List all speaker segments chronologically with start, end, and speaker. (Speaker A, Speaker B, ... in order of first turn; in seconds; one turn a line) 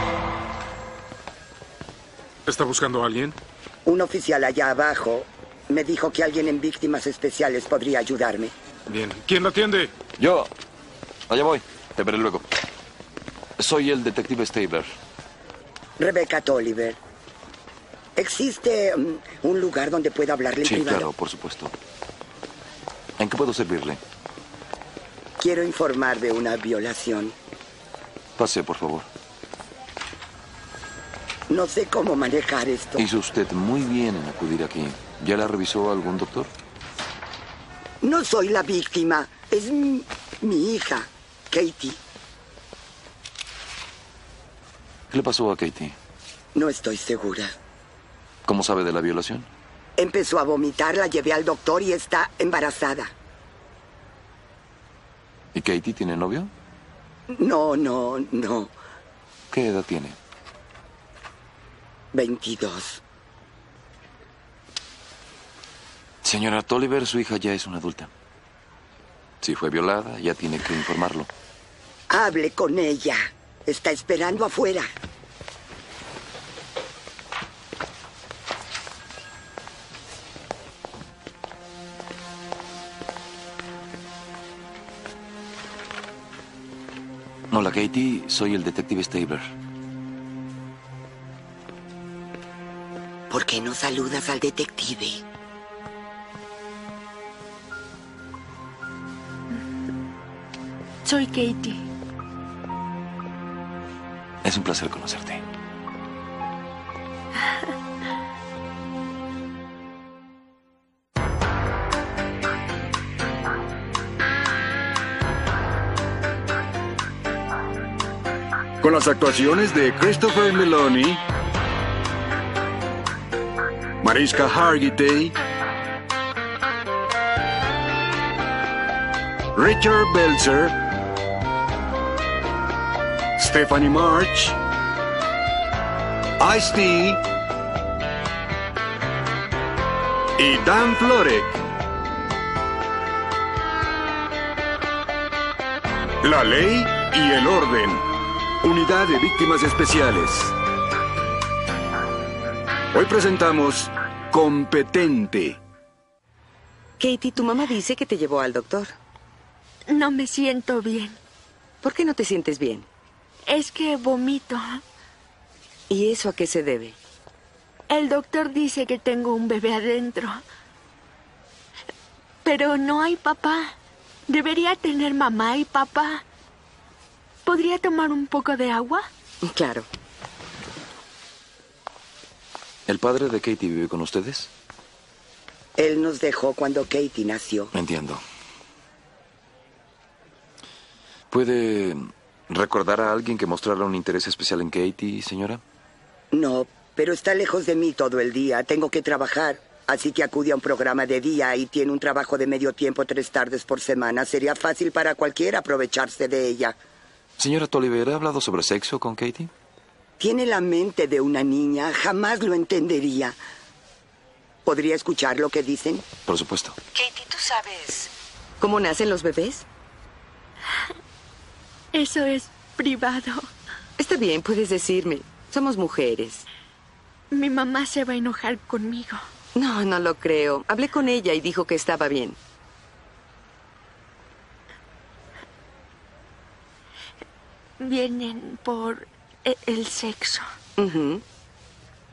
Speaker A: 2.5-3.4
Speaker B: 3.9-8.5
Speaker A: 8.9-9.9
Speaker C: 10.2-10.5
Speaker C: 11.3-12.5
Speaker C: 13.6-14.9
Speaker B: 16.0-17.0
Speaker B: 18.2-21.1
Speaker C: 20.6-21.7
Speaker C: 23.2-24.0
Speaker B: 25.4-27.4
Speaker C: 28.4-29.1
Speaker B: 31.5-33.0
Speaker C: 33.0-36.5
Speaker B: 38.0-42.0
Speaker C: 45.1-46.0
Speaker B: 46.5-47.5
Speaker C: 48.5-49.5
Speaker B: 50.0-53.1
Speaker C: 55.5-56.5
Speaker B: 57.3-58.7
Speaker C: 59.5-60.2
Speaker B: 62.1-63.0
Speaker C: 66.2-68.1
Speaker C: 69.4-71.3
Speaker B: 72.1-74.9
Speaker C: 87.5-89.5
Speaker B: 93.3-95.2
Speaker D: 101.0-101.9
Speaker C: 104.4-105.4
Speaker E: 118.8-121.2
Speaker E: 124.0-125.3
Speaker E: 129.6-130.8
Speaker E: 133.4-134.6
Speaker E: 136.4-137.2
Speaker E: 140.4-141.6
Speaker E: 146.2-148.1
Speaker E: 148.6-150.5
Speaker E: 152.9-155.6
Speaker F: 157.0-158.9
Speaker D: 159.9-161.2
Speaker F: 161.8-162.9
Speaker D: 163.5-164.8
Speaker F: 165.9-167.0
Speaker D: 167.9-170.4
Speaker D: 172.4-173.8
Speaker D: 174.3-176.2
Speaker D: 177.5-179.1
Speaker F: 179.4-179.9
Speaker C: 182.9-184.5
Speaker B: 185.8-187.7
Speaker C: 187.7-188.2
Speaker C: 191.3-195.6
Speaker B: 196.3-206.8
Speaker C: 207.4-209.5
Speaker B: 210.2-213.4
Speaker B: 214.7-216.1
Speaker C: 216.3-216.8
Speaker F: 216.9-219.7
Speaker D: 221.9-223.5
Speaker F: 224.0-226.5
Speaker D: 227.3-229.2
Speaker F: 229.6-232.4
Speaker D: 237.8-240.5
Speaker F: 240.8-241.2